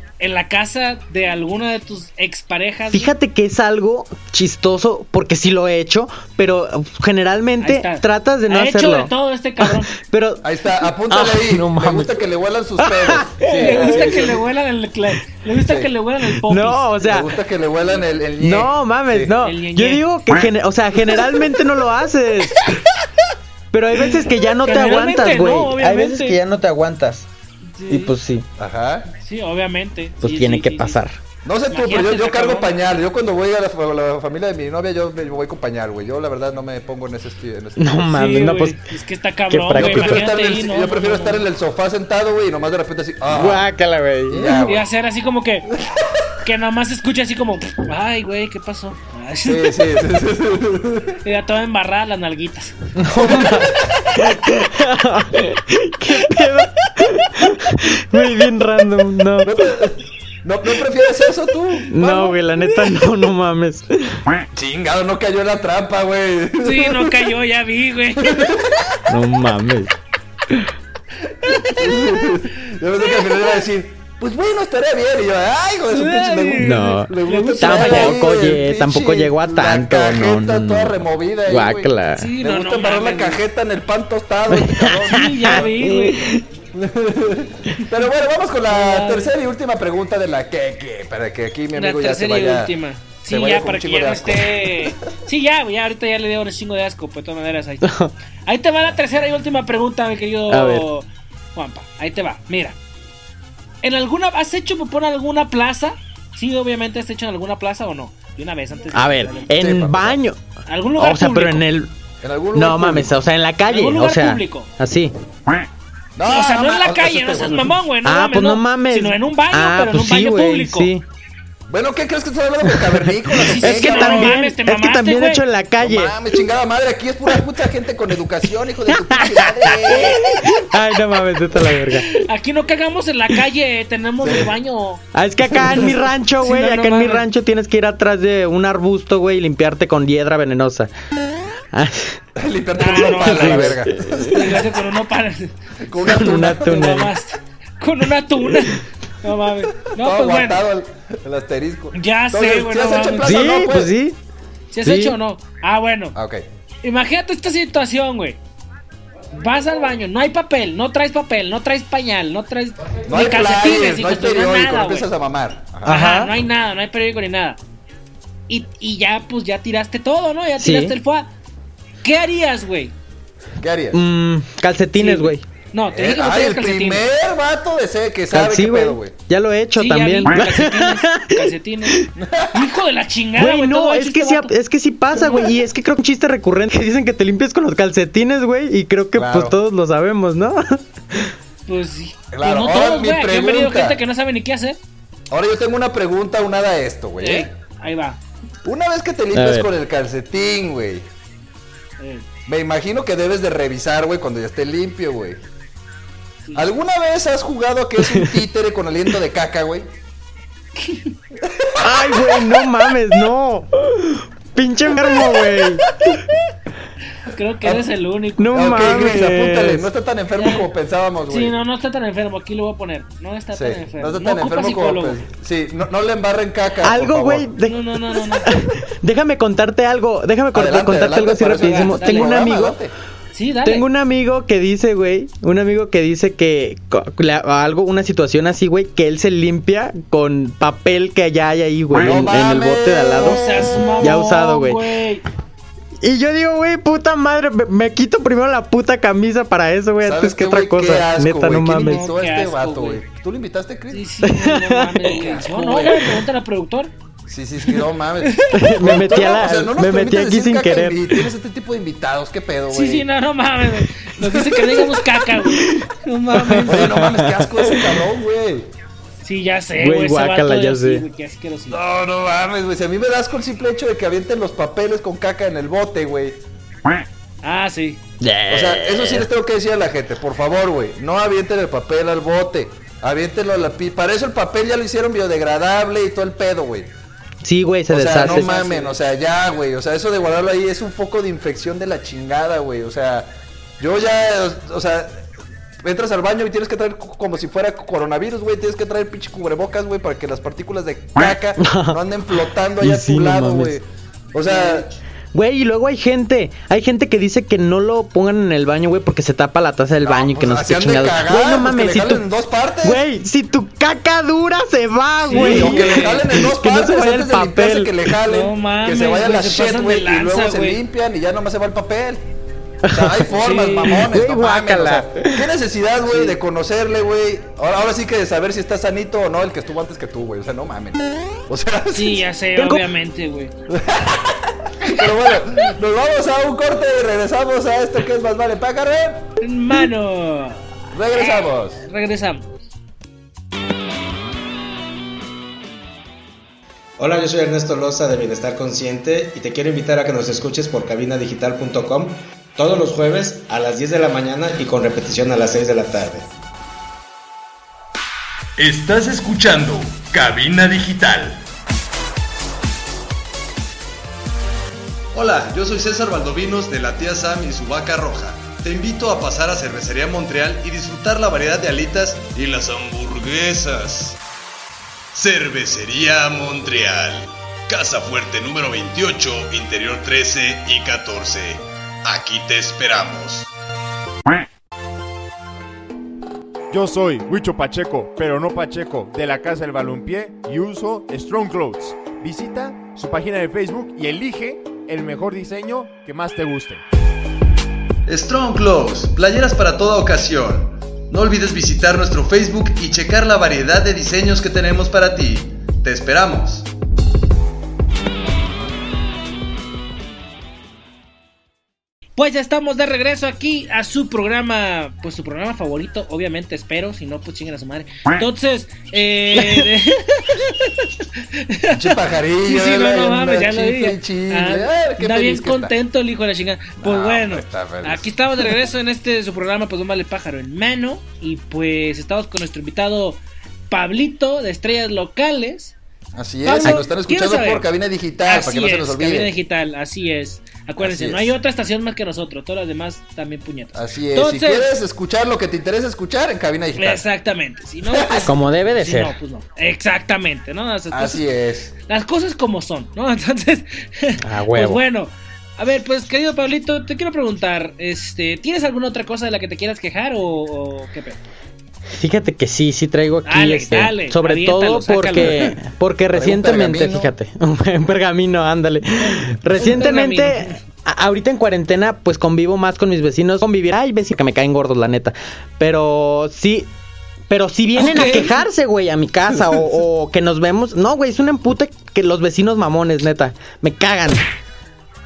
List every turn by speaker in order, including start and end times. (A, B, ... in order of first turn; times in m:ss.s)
0:00.2-0:03.1 A
0:02.9-0:12.2 B
0:07.6-0:09.9 A
0:10.4-0:14.4 C
0:12.8-0:14.2 B
0:13.5-0:17.2 A
0:15.6-0:15.9 C
0:16.4-0:17.3 B
0:17.0-0:19.3 C
0:18.4-0:22.7 B
0:19.4-0:20.0 A
0:23.7-0:27.3 B
0:24.6-0:26.4 A
0:27.7-0:28.1 A
0:27.9-0:28.5 B
0:28.6-0:29.1 C
0:29.2-0:31.0 A
0:30.2-0:31.2 B
0:31.4-0:38.0 C
0:31.7-0:32.8 A
0:37.8-0:38.8 B
0:38.1-0:41.4 A
0:39.5-0:40.3 B
0:39.7-0:43.7 C
0:43.3-0:44.5 B
0:44.3-0:44.9 C
0:44.6-0:45.7 A
0:46.4-0:49.8 A
0:49.4-0:51.2 C
0:51.2-0:52.8 A
0:53.0-0:59.6 B
0:53.2-0:53.8 C
0:59.4-1:02.5 C
1:01.9-1:04.2 B
1:04.5-1:07.3 C
1:06.6-1:08.5 A
1:08.2-1:09.0 C
1:09.1-1:09.9 B
1:11.5-1:12.0 A
1:11.7-1:25.8 C
1:15.9-1:18.2 A
1:16.6-1:22.3 B
1:22.2-1:23.4 A
1:24.5-1:26.4 B
1:25.1-1:26.2 A
1:26.7-1:32.7 C
1:28.7-1:29.3 A
1:31.8-1:37.9 A
1:33.3-1:34.9 C
1:37.8-1:38.1 B
1:38.5-1:42.8 A
1:40.5-1:40.9 B
1:43.8-1:49.5 A
1:48.9-1:50.4 B
1:49.5-1:50.2 C
1:50.7-1:51.6 A
1:51.0-1:51.9 B
1:52.2-1:53.2 C
1:52.5-1:55.1 B
1:53.7-1:54.7 A
1:56.2-1:57.8 C
1:56.2-2:00.9 A
1:58.0-2:01.0 B
2:01.7-2:04.4 C
2:02.7-2:06.2 B
2:03.5-2:05.4 A
2:05.8-2:10.6 C
2:08.9-2:12.2 B
2:12.0-2:17.2 A
2:14.2-2:14.5 C
2:15.1-2:20.9 B
2:21.7-2:22.2 B
2:22.4-2:24.7 C
2:22.8-2:23.7 A
2:23.2-2:24.4 B
2:24.3-2:30.6 A
2:25.8-2:26.8 C
2:26.0-2:27.1 B
2:30.0-2:33.9 C
2:31.9-2:33.4 A
2:33.2-2:34.2 B
2:34.7-2:36.2 A
2:34.8-2:35.2 B
2:36.2-2:36.5 C
2:36.8-2:38.4 A
2:39.3-2:45.1 A
2:43.1-2:46.0 C
2:45.8-2:47.6 A
2:45.9-2:46.3 B
2:48.5-2:51.3 A
2:50.6-2:51.0 B
2:52.0-2:52.9 A
2:53.6-2:54.0 C
2:53.9-2:55.4 B
2:55.0-2:57.0 A
2:55.9-2:59.1 C
2:58.3-3:02.1 B
2:59.8-3:04.5 A
3:02.2-3:02.7 C
3:03.4-3:11.3 B
3:05.2-3:05.5 A
3:09.2-3:09.6 C
3:11.7-3:14.8 A
3:12.3-3:14.0 C
3:15.3-3:17.5 C
3:17.2-3:18.2 A
3:18.6-3:21.1 C
3:19.3-3:19.7 B
3:22.0-3:22.2 A
3:22.5-3:25.4 C
3:26.4-3:26.7 A
3:26.6-3:29.9 C
3:28.1-3:28.4 B
3:30.8-3:31.1 A
3:31.4-3:32.4 C
3:31.8-3:36.2 B
3:37.2-3:38.7 A
3:38.4-3:39.9 B
3:38.5-3:41.6 C
3:40.4-3:40.6 A
3:41.3-3:45.2 A
3:43.5-3:47.5 C
3:46.8-3:52.8 B
3:47.7-3:48.5 A
3:50.5-3:52.9 C
3:51.5-3:52.4 A
3:53.3-3:53.9 A
3:53.6-4:04.9 B
4:01.9-4:04.2 C
4:03.2-4:05.2 A
4:06.0-4:12.1 B
4:10.0-4:14.1 C
4:11.7-4:13.0 A
4:13.9-4:16.9 A
4:14.2-4:16.1 B
4:15.1-4:15.9 C
4:17.3-4:23.1 C
4:18.2-4:18.5 A
4:18.5-4:21.3 B
4:22.7-4:27.0 A
4:24.2-4:25.0 C
4:25.4-4:25.9 B
4:26.4-4:27.7 B
4:26.6-4:28.7 C
4:29.2-4:31.8 A
4:29.8-4:31.0 B
4:31.7-4:36.4 C
4:37.4-4:38.0 A
4:38.2-4:39.3 B
4:38.5-4:46.9 C
4:47.4-4:48.5 B
4:47.9-4:55.2 C
4:48.2-4:49.0 A
4:55.8-5:04.9 C
5:01.6-5:02.0 B
5:02.8-5:03.8 B
5:04.5-5:04.9 A
5:05.3-5:12.2 B
5:10.0-5:13.0 C
5:12.8-5:18.0 B
5:15.2-5:16.2 A
5:15.3-5:22.2 C
5:18.2-5:20.8 A
5:22.8-5:23.3 B
5:22.9-5:32.3 C
5:23.4-5:24.0 A
5:23.9-5:25.5 B
5:31.9-5:33.5 A
5:32.6-5:32.8 B
5:33.7-5:39.3 C
5:39.4-5:42.5 A
5:40.9-5:41.8 C
5:47.0-5:56.3 D
5:58.6-6:01.4 E
6:05.1-6:14.2 E
6:15.1-6:23.5 E
6:26.7-6:36.8 F
6:38.1-6:46.7 E
6:52.2-7:15.8 A
7:01.7-7:05.8 C
7:06.8-7:08.1 C
7:16.2-7:19.3 C
7:16.4-7:17.7 A
7:18.2-7:24.7 A
7:20.8-7:21.4 C
7:23.8-7:27.0 C
7:26.8-7:31.2 A
7:27.8-7:28.3 C
7:28.2-7:29.1 B
7:30.9-7:31.7 C
7:31.9-7:41.2 A
7:34.2-7:34.8 B
7:42.0-7:56.7 B
7:43.3-7:45.5 A
7:46.1-7:47.1 C
7:49.0-7:50.6 A
7:57.3-8:04.2 B
7:57.8-7:58.4 A